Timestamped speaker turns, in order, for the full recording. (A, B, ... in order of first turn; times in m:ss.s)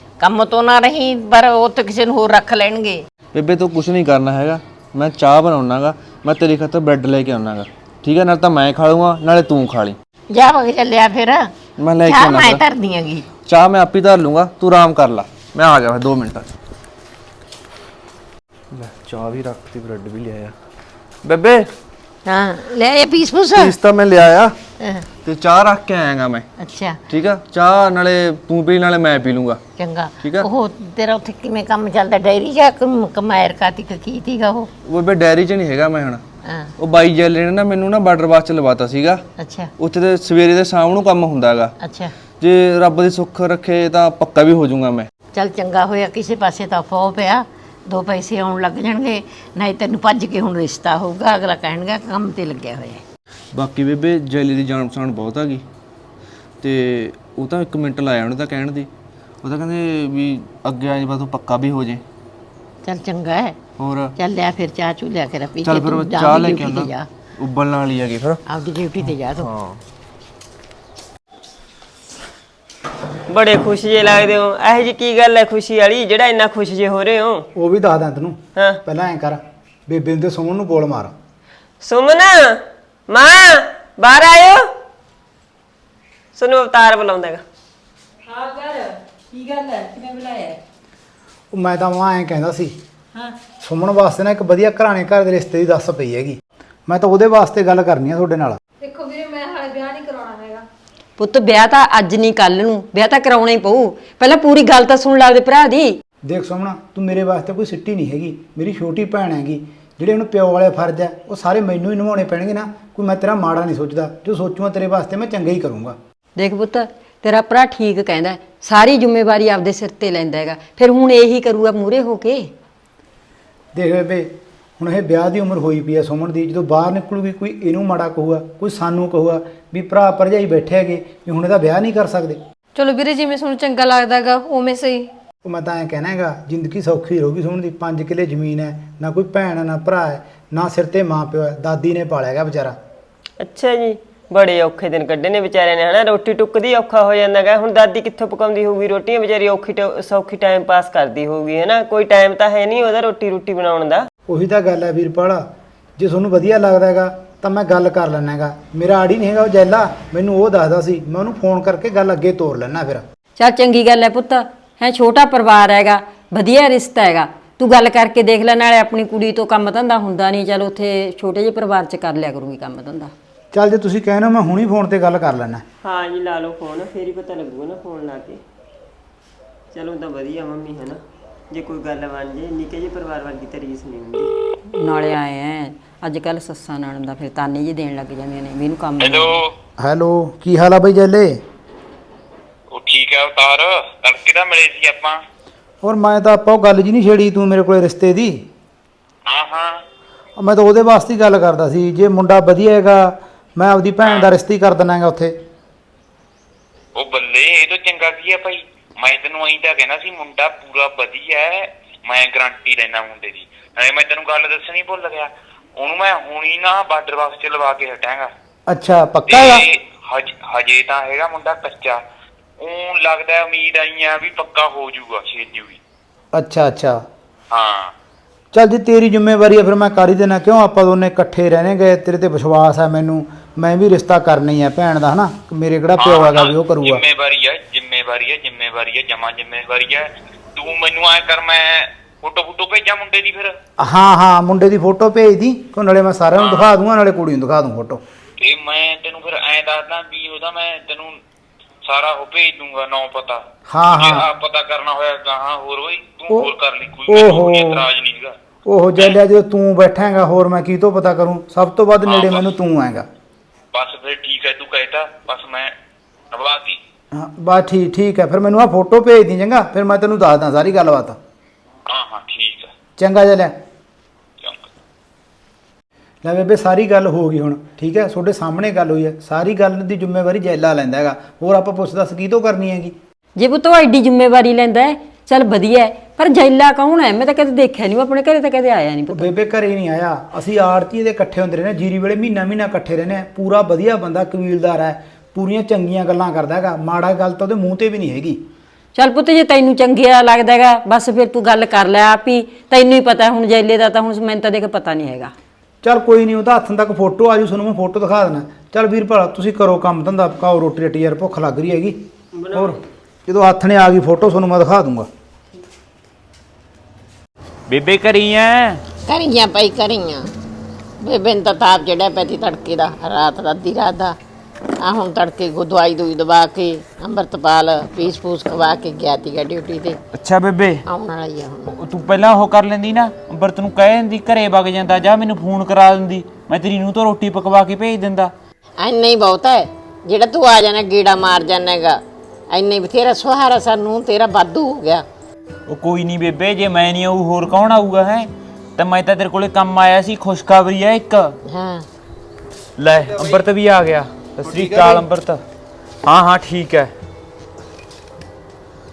0:00.2-0:03.0 A
0:03.3-0:10.0 B
0:10.3-0:13.3 A
0:11.8-0:12.6 B
0:13.5-0:16.5 B
0:18.7-0:20.5 B
0:21.2-0:21.7 B
0:22.2-0:23.8 A
0:23.5-0:24.5 B
0:24.8-0:25.0 A
0:25.2-0:26.5 B
0:26.6-0:27.0 A
0:27.1-0:29.6 B
0:29.8-0:34.7 A
0:30.2-0:30.5 B
0:34.8-0:36.2 B
0:36.4-0:36.7 A
0:36.8-0:39.2 B
0:39.4-0:39.7 A
0:39.8-0:41.7 B
0:41.8-0:42.1 A
0:42.4-0:45.1 B
0:45.3-0:53.0 A
0:53.5-0:55.6 B
0:56.6-0:58.9 B
0:59.4-1:02.0 B
1:02.8-1:03.6 A
1:03.8-1:04.1 B
1:04.2-1:07.1 A
1:05.6-1:08.4 B
1:08.5-1:09.5 A
1:09.3-1:09.8 B
1:13.3-1:17.5 C
1:17.5-1:21.1 D
1:21.8-1:24.7 C
1:26.3-1:27.4 C
1:28.3-1:30.6 E
1:31.5-1:32.8 D
1:33.6-1:38.6 D
1:38.8-1:40.6 F
1:41.2-1:46.0 E
1:46.2-1:56.0 D
1:56.4-2:02.5 E
2:03.7-2:12.4 D
2:12.8-2:15.1 F
2:15.4-2:22.8 D
2:23.4-2:34.0 C
2:34.3-2:35.4 D
2:36.0-2:43.0 D
2:43.4-2:53.1 E
2:53.5-2:55.6 D
2:55.8-2:58.4 C
2:59.7-3:04.3 C
3:04.7-3:09.4 E
3:09.0-3:09.5 G
3:09.8-3:11.4 D
3:12.7-3:15.2 G
3:15.8-3:18.5 D
3:19.2-3:19.8 G
3:20.4-3:25.4 D
3:24.0-3:24.3 G
3:27.0-3:38.3 G
3:38.7-3:39.6 D
3:39.3-3:42.0 G
3:42.6-3:45.8 G
3:46.3-3:47.0 D
3:47.5-3:47.9 G
3:48.5-3:57.0 D
3:56.0-4:03.6 G
4:03.8-4:08.0 D
4:06.4-4:06.7 G
4:08.4-4:11.2 G
4:11.8-4:18.4 G
4:13.7-4:14.3 D
4:17.1-4:17.8 D
4:18.6-4:23.1 D
4:22.0-4:22.5 G
4:23.7-4:25.7 G
4:26.3-4:26.8 G
4:27.1-4:31.2 D
4:31.9-4:32.7 G
4:33.0-4:33.6 D
4:34.4-4:34.6 G
4:36.2-4:43.0 D
4:43.4-4:49.3 E
4:49.1-4:58.4 D
4:58.9-5:05.3 E
5:05.8-5:15.1 D
5:12.3-5:12.8 C
5:17.7-5:18.8 H
5:19.0-5:20.3 A
5:21.0-5:24.2 A
5:24.8-5:30.0 A
5:30.1-5:30.8 H
5:30.9-5:31.7 A
5:31.7-5:38.3 H
5:38.8-5:42.0 A
5:42.5-5:45.0 A
5:45.7-5:51.3 H
5:51.4-5:51.8 A
5:52.8-5:55.4 H
5:53.0-5:53.5 B
5:54.4-5:55.1 B
5:56.0-5:56.9 H